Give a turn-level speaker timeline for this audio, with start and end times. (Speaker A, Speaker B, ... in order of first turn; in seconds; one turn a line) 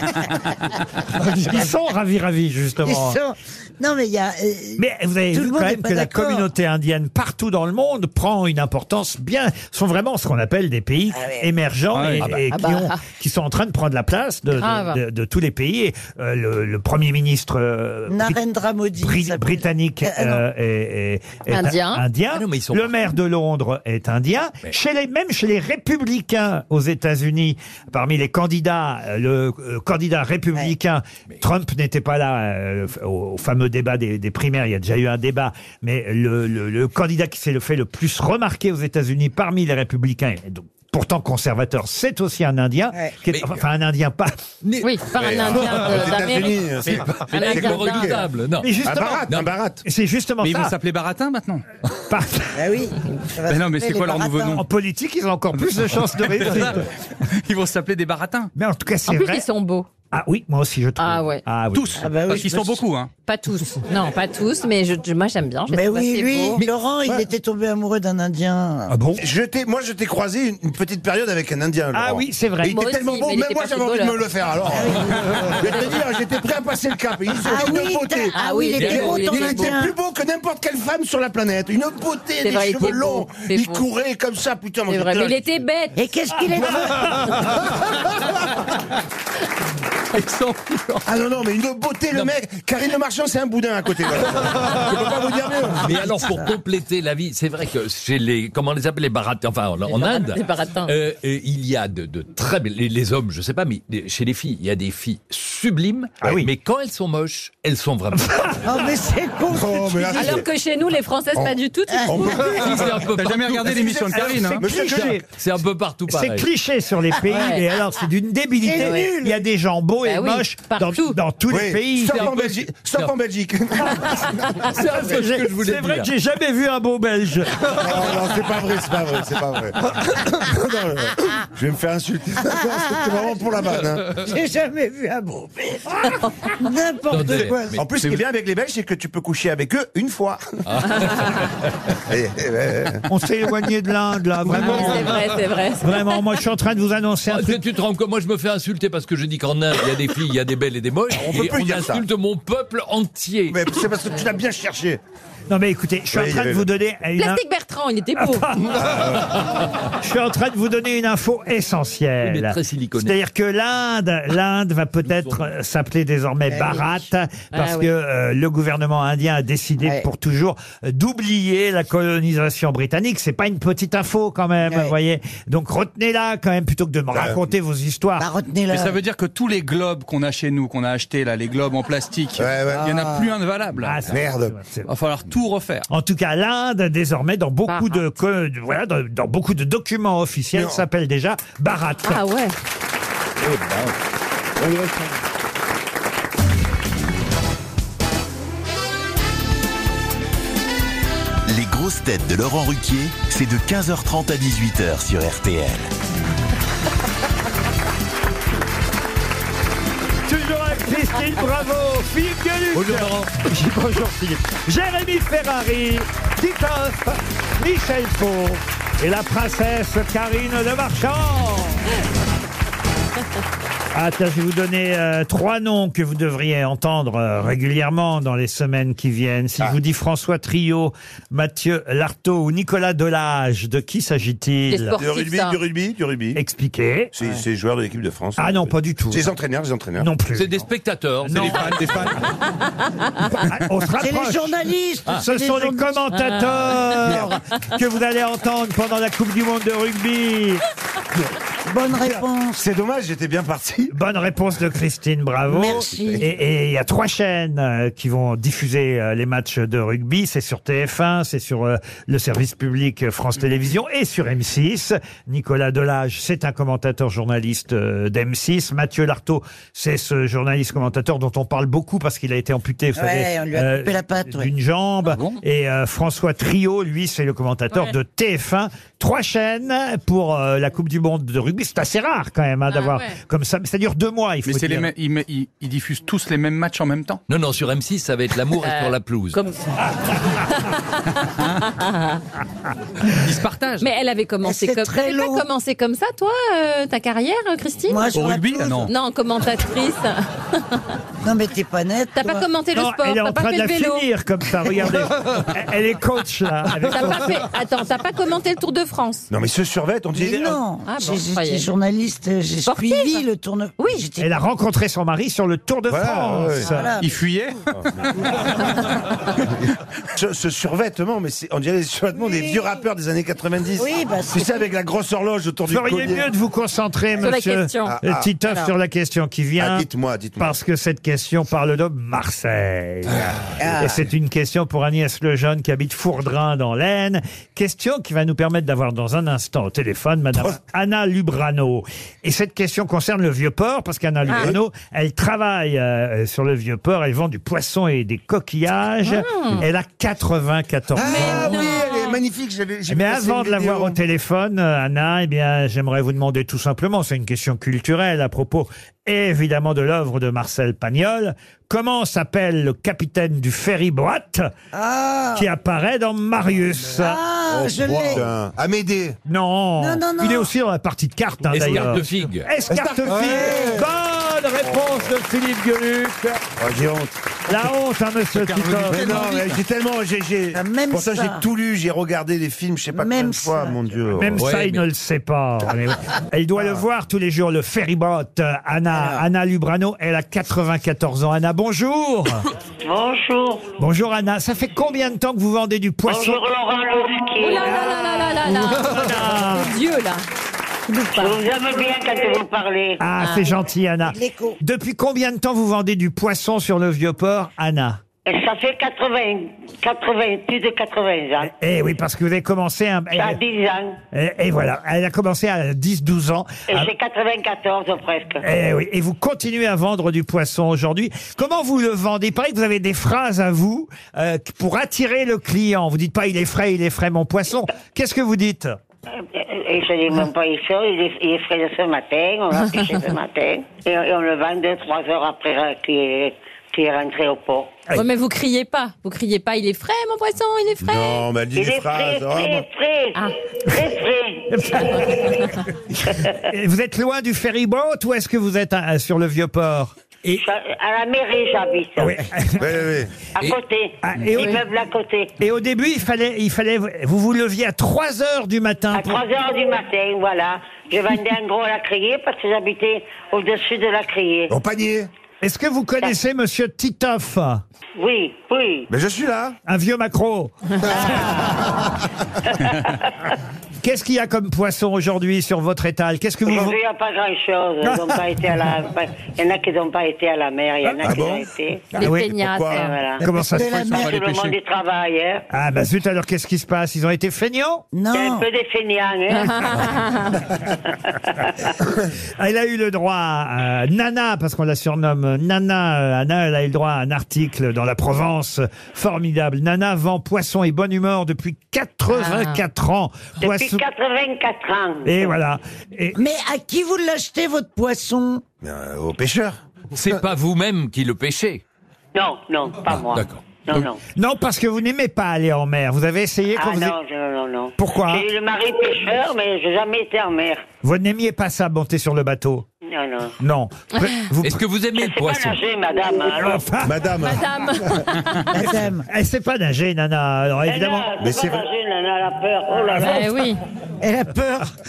Speaker A: 1.2-3.2
Speaker B: 2.9-6.5
Speaker A: 4.8-18.4
Speaker B: 11.1-11.5
Speaker C: 11.9-12.3
Speaker D: 12.5-13.0
Speaker D: 14.6-15.0
Speaker B: 18.1-20.4
Speaker A: 19.0-44.3
Speaker D: 21.5-22.0
Speaker E: 22.3-22.9
Speaker E: 44.6-45.8
Speaker D: 44.8-46.6
Speaker F: 45.2-48.2
Speaker E: 46.9-48.7
Speaker D: 47.3-48.2
Speaker A: 48.6-49.3
Speaker F: 48.8-49.8
Speaker A: 49.8-50.8
Speaker C: 50.4-51.6
Speaker A: 52.1-52.7
Speaker B: 52.5-54.4
Speaker C: 53.5-54.6
Speaker A: 54.4-56.8
Speaker C: 56.1-58.5
Speaker A: 58.5-59.5
Speaker D: 59.1-59.9
Speaker A: 60.1-62.1
Speaker D: 61.0-61.4
Speaker C: 61.7-63.1
Speaker B: 62.0-62.9
Speaker D: 63.2-66.6
Speaker B: 65.7-69.0
Speaker A: 68.9-69.2
Speaker F: 69.2-85.4
Speaker A: 71.9-72.8
Speaker D: 72.7-74.2
Speaker B: 74.7-75.6
Speaker B: 77.4-80.0
Speaker D: 78.3-79.8
Speaker D: 82.4-83.8
Speaker D: 84.9-86.0
Speaker B: 86.0-87.2
Speaker C: 90.3-91.0
Speaker F: 91.0-96.1
Speaker E: 95.7-108.3
Speaker D: 99.9-100.9
Speaker A: 106.2-106.5
Speaker A: 108.1-108.8
Speaker B: 108.7-110.4
Speaker F: 109.5-110.5
Speaker D: 110.1-112.6
Speaker B: 111.9-112.3
Speaker F: 112.1-113.0
Speaker E: 112.5-113.8
Speaker C: 113.1-114.7
Speaker F: 113.7-115.2
Speaker A: 114.6-115.2
Speaker E: 114.8-116.5
Speaker A: 116.1-122.3
Speaker D: 117.3-117.6
Speaker B: 118.6-119.4
Speaker D: 120.0-121.2
Speaker F: 121.5-124.6
Speaker E: 122.1-123.1
Speaker E: 124.6-126.1
Speaker A: 124.8-127.7
Speaker F: 127.8-134.2
Speaker B: 132.8-133.3
Speaker B: 134.1-137.8
Speaker E: 137.1-138.2
Speaker F: 137.8-140.4
Speaker E: 140.7-141.7
Speaker F: 142.1-143.1
Speaker A: 143.1-145.2
Speaker D: 144.5-146.2
Speaker A: 145.8-147.6
Speaker E: 147.3-153.6
Speaker F: 151.1-152.0
Speaker F: 153.5-155.0
Speaker A: 155.5-157.4
Speaker F: 156.1-156.7
Speaker D: 157.2-158.5
Speaker A: 158.2-158.8
Speaker F: 158.8-159.3
Speaker A: 160.0-178.3
Speaker E: 162.2-163.2
Speaker B: 166.5-167.0
Speaker D: 167.5-167.9
Speaker B: 174.7-174.9
Speaker B: 178.2-179.0
Speaker C: 178.7-184.1
Speaker F: 182.4-183.2
Speaker A: 183.8-184.9
Speaker F: 184.1-184.6
Speaker C: 184.9-185.9
Speaker A: 185.9-192.2
Speaker D: 187.7-188.1
Speaker F: 190.6-190.8
Speaker D: 192.1-192.5
Speaker E: 193.4-193.9
Speaker G: 201.5-205.9
Speaker A: 210.3-221.9
Speaker A: 223.9-234.9
Speaker D: 234.7-235.6
Speaker F: 235.0-236.4
Speaker A: 236.4-237.1
Speaker F: 237.1-240.1
Speaker A: 238.4-239.3
Speaker A: 240.0-240.6
Speaker E: 240.3-242.2
Speaker A: 241.2-242.2
Speaker A: 243.3-244.6
Speaker B: 244.0-245.9
Speaker A: 245.1-250.6
Speaker D: 246.2-246.8
Speaker B: 251.7-252.6
Speaker F: 252.6-253.9
Speaker A: 253.9-284.9
Speaker B: 255.5-256.3
Speaker B: 273.0-274.5
Speaker D: 282.7-283.1
Speaker C: 284.4-287.2
Speaker E: 287.3-289.4
Speaker D: 288.6-289.7
Speaker D: 290.3-292.2
Speaker C: 293.1-293.9
Speaker D: 293.8-298.1
Speaker B: 294.4-295.5
Speaker B: 297.9-298.9
Speaker C: 298.1-298.9
Speaker D: 298.9-300.8
Speaker B: 301.2-302.5
Speaker D: 302.1-304.0
Speaker A: 302.8-307.4
Speaker D: 306.9-309.3
Speaker F: 309.3-310.6
Speaker B: 310.1-314.3
Speaker D: 310.9-311.7
Speaker D: 312.7-313.2
Speaker D: 313.8-314.1
Speaker A: 314.2-316.9
Speaker F: 315.9-316.7
Speaker B: 316.6-317.1
Speaker C: 317.0-318.1
Speaker F: 320.1-326.3
Speaker B: 322.2-322.6
Speaker B: 323.8-324.7
Speaker A: 325.7-329.9
Speaker D: 327.2-328.0
Speaker F: 327.9-328.3
Speaker F: 329.6-330.5
Speaker A: 330.4-351.7
Speaker B: 333.6-334.0
Speaker D: 349.1-349.6
Speaker F: 351.0-354.0
Speaker D: 351.0-352.2
Speaker A: 352.9-364.5
Speaker B: 364.7-365.5
Speaker A: 365.4-367.2
Speaker B: 366.9-368.3
Speaker F: 367.5-369.2
Speaker A: 369.3-376.4
Speaker B: 369.8-370.5
Speaker E: 371.5-372.5
Speaker F: 372.7-373.8
Speaker B: 373.3-373.8
Speaker F: 376.6-377.2
Speaker A: 377.5-379.3
Speaker F: 378.9-384.4
Speaker B: 379.0-379.5
Speaker B: 380.5-381.5
Speaker B: 382.9-383.9
Speaker A: 384.1-392.5
Speaker E: 384.4-384.9
Speaker B: 388.9-389.2
Speaker H: 392.8-393.8
Speaker A: 393.8-396.4
Speaker H: 396.1-397.9
Speaker D: 397.4-400.2
Speaker A: 397.6-399.7
Speaker D: 400.9-401.4
Speaker H: 401.2-403.0
Speaker A: 403.0-408.0
Speaker D: 403.2-403.5
Speaker B: 404.1-404.6
Speaker H: 408.3-411.5
Speaker A: 411.4-413.4
Speaker H: 413.1-414.0
Speaker A: 414.1-416.9
Speaker H: 416.7-418.4
Speaker A: 418.4-428.8
Speaker H: 429.2-437.8
Speaker D: 432.8-433.0
Speaker D: 437.9-441.2
Speaker F: 440.8-442.7
Speaker H: 441.6-445.2
Speaker A: 444.5-450.4
Speaker H: 450.3-452.2
Speaker A: 452.0-452.7
Speaker F: 452.6-453.1
Speaker H: 453.4-455.4
Speaker A: 454.0-454.6
Speaker D: 454.3-454.6
Speaker A: 455.4-459.2
Speaker H: 458.9-464.5
Speaker F: 464.5-465.1
Speaker A: 465.4-467.6
Speaker H: 468.0-468.9
Speaker F: 468.9-469.6
Speaker A: 469.7-471.4
Speaker H: 470.9-471.8
Speaker F: 470.9-471.9
Speaker H: 472.6-473.0
Speaker A: 473.8-476.8
Speaker H: 476.5-481.9
Speaker A: 477.9-478.2
Speaker F: 481.0-481.4
Speaker D: 481.9-483.0
Speaker A: 482.0-482.4
Speaker F: 482.0-482.9
Speaker H: 482.7-483.2
Speaker A: 483.2-484.1
Speaker B: 483.2-484.2
Speaker C: 483.6-484.6
Speaker H: 484.0-485.4
Speaker A: 485.5-487.9
Speaker B: 487.9-488.5
Speaker H: 488.1-489.9
Speaker D: 489.3-490.4
Speaker H: 491.1-491.5
Speaker A: 492.4-503.8
Speaker D: 502.1-502.6
Speaker H: 503.4-505.3
Speaker A: 505.1-506.2
Speaker B: 506.1-508.4
Speaker F: 508.6-509.6
Speaker E: 509.9-511.6
Speaker H: 512.1-514.0
Speaker E: 512.9-513.4
Speaker A: 514.1-516.9
Speaker H: 516.6-520.6
Speaker A: 517.8-518.3
Speaker A: 520.8-522.7
Speaker H: 522.9-523.4
Speaker A: 523.4-524.6
Speaker D: 523.9-524.2
Speaker E: 524.4-525.6
Speaker H: 524.9-526.7
Speaker A: 526.3-527.1
Speaker F: 526.8-527.8
Speaker D: 527.2-528.6
Speaker B: 528.5-529.1
Speaker A: 529.1-531.1
Speaker H: 530.6-533.3
Speaker F: 531.2-531.6
Speaker D: 533.0-533.6
Speaker B: 534.0-534.7